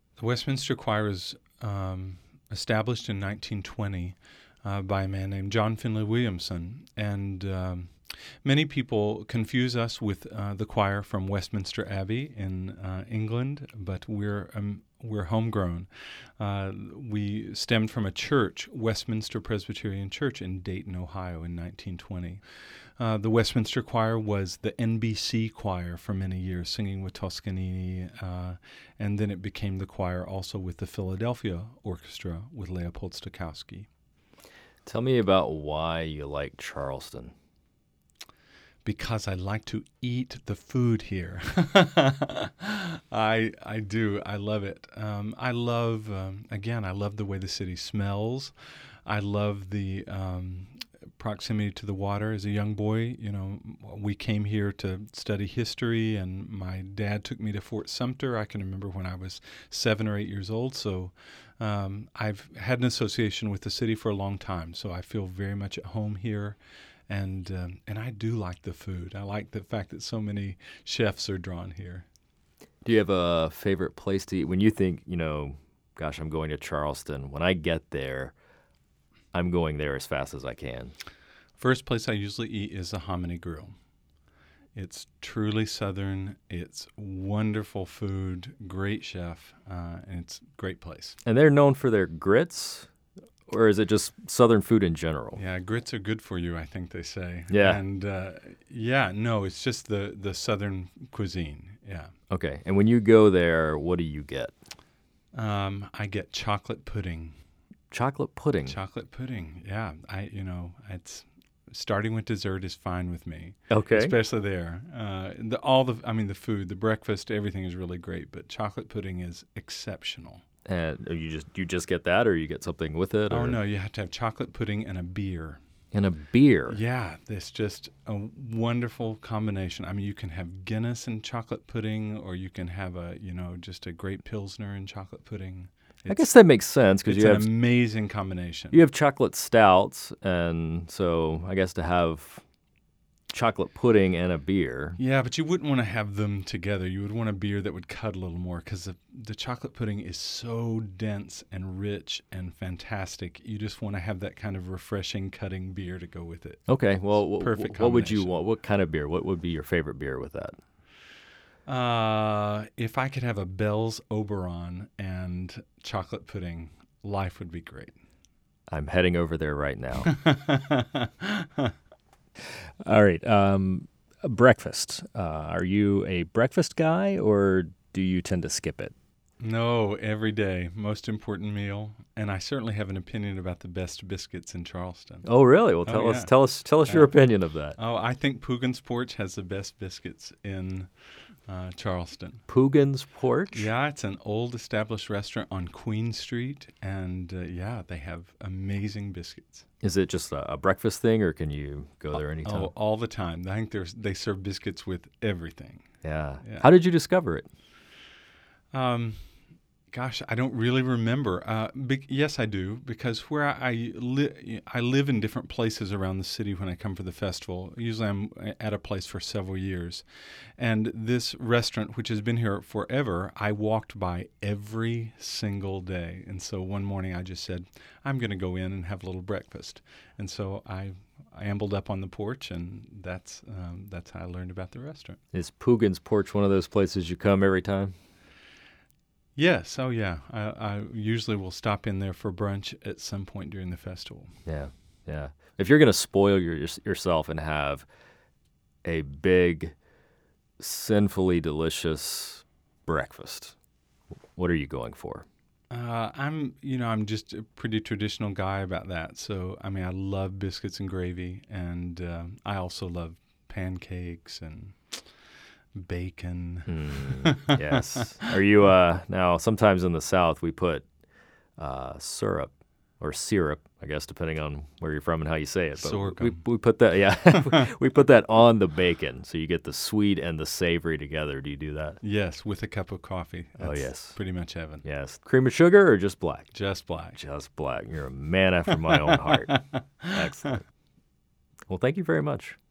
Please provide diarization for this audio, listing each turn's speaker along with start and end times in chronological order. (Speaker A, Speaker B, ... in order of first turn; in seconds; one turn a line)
Speaker A: 0.2-7.9
Speaker A: 8.4-22.4
Speaker A: 23.0-33.9
Speaker B: 34.9-37.3
Speaker A: 38.9-48.5
Speaker A: 49.1-66.6
Speaker A: 67.1-72.1
Speaker B: 72.8-78.3
Speaker B: 79.3-80.9
Speaker A: 81.6-83.8
Speaker A: 84.8-91.2
Speaker B: 91.2-92.9
Speaker B: 93.5-95.4
Speaker A: 95.4-102.1
Speaker B: 97.5-97.8
Speaker B: 102.3-104.5
Speaker A: 105.3-107.4
Speaker B: 107.9-108.8
Speaker A: 108.7-120.4
Speaker B: 113.7-114.2
Speaker B: 120.7-123.6
Speaker A: 123.3-125.6
Speaker B: 125.9-126.8
Speaker A: 126.7-136.3
Speaker B: 136.1-137.5
Speaker A: 137.1-138.8
Speaker B: 138.7-142.4
Speaker B: 143.3-145.0
Speaker A: 145.0-158.3
Speaker B: 156.7-160.6
Speaker A: 161.7-168.0
Speaker B: 168.7-170.1
Speaker A: 170.1-171.7
Speaker B: 172.8-178.9
Speaker A: 179.4-185.3
Speaker B: 185.2-187.8
Speaker A: 185.8-186.3
Speaker A: 186.8-187.1
Speaker A: 187.8-190.9
Speaker A: 191.5-192.4
Speaker B: 192.5-193.7
Speaker A: 193.5-199.7
Speaker B: 199.8-202.7
Speaker A: 202.4-205.9
Speaker B: 206.0-207.5
Speaker A: 206.4-206.7
Speaker A: 208.7-209.2
Speaker A: 209.9-220.0
Speaker A: 220.6-235.2
Speaker B: 235.3-237.9
Speaker A: 239.4-244.3
Speaker B: 244.5-247.9
Speaker B: 248.8-249.7
Speaker B: 250.6-253.5
Speaker B: 254.4-255.3
Speaker A: 255.7-265.1
Speaker A: 265.8-268.3
Speaker B: 266.7-270.9
Speaker B: 271.6-282.0
Speaker A: 275.8-276.4
Speaker A: 282.0-284.8
Speaker B: 283.6-284.2
Speaker B: 284.8-286.5
Speaker A: 286.5-287.2
Speaker B: 287.1-289.5
Speaker A: 288.9-290.3
Speaker B: 290.1-290.6
Speaker B: 291.7-292.6